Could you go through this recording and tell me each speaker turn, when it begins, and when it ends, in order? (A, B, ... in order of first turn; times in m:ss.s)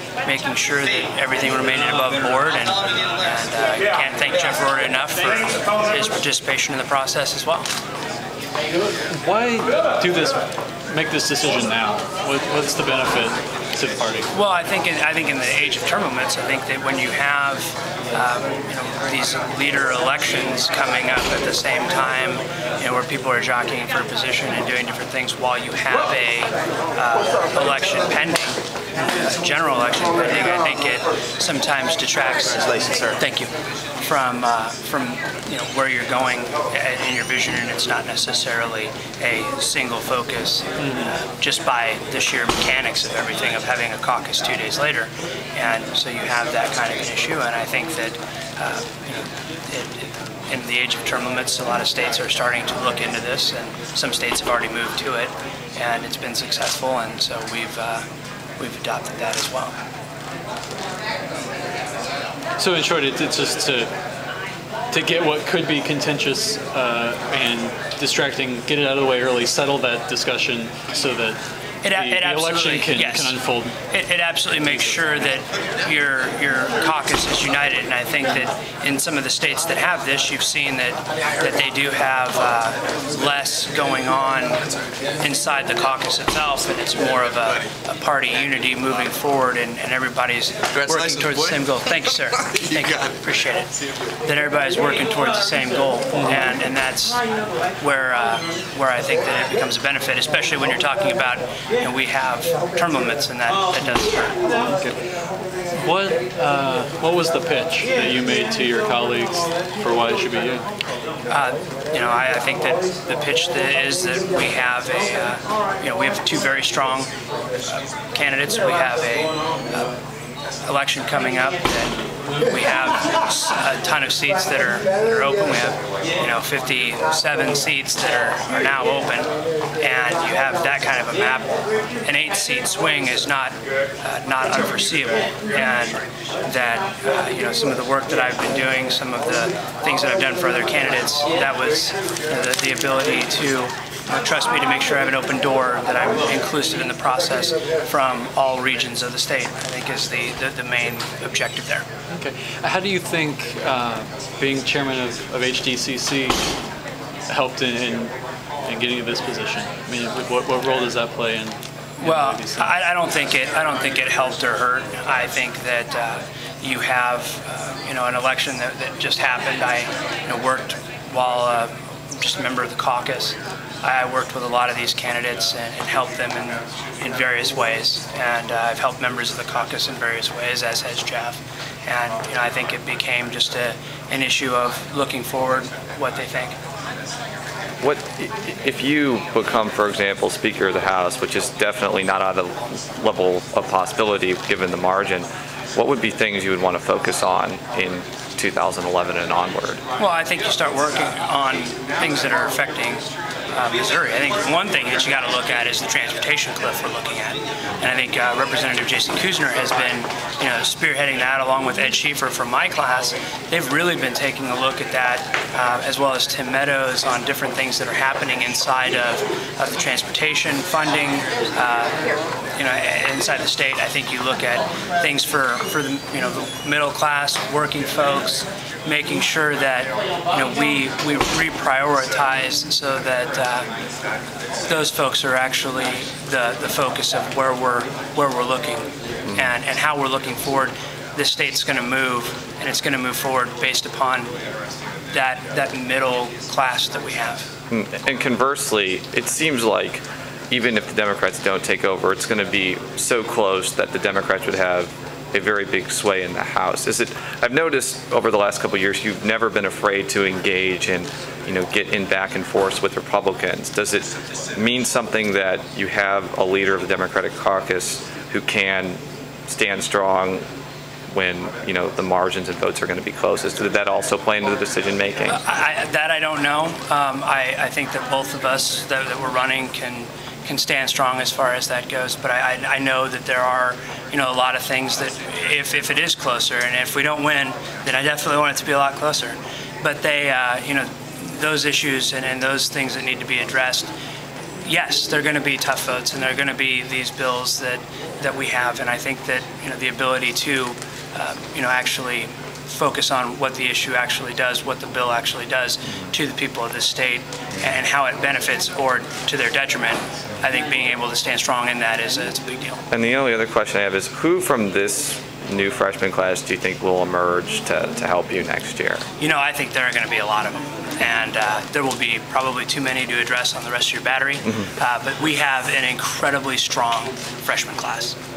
0:00.2-0:07.7 A
0:09.1-0:14.3 B
0:14.3-0:58.0 A
0:40.8-0:41.1 B
0:58.6-0:59.7 A
1:02.6-1:03.9 B
1:04.9-1:11.4 B
1:11.8-1:24.6 A
1:11.9-1:13.7 B
1:25.2-1:37.2 A
1:37.8-1:44.4 A
1:44.7-1:45.1 B
1:45.8-1:50.6 B
1:51.3-1:57.1 A
1:58.1-1:59.9 A
2:00.6-2:31.9 A
2:32.1-2:36.4 B
2:37.3-2:38.1 B
2:38.6-2:42.7 B
2:42.0-3:06.6 A
3:07.8-3:19.8 C
3:20.0-3:42.0 A
3:42.6-3:53.7 A
3:54.6-4:04.3 A
4:05.1-4:07.5 A
4:07.7-4:30.4 C
4:31.1-4:35.4 C
4:35.3-4:53.9 A
4:54.6-5:12.8 A
5:12.9-5:19.0 C
5:19.2-5:28.2 A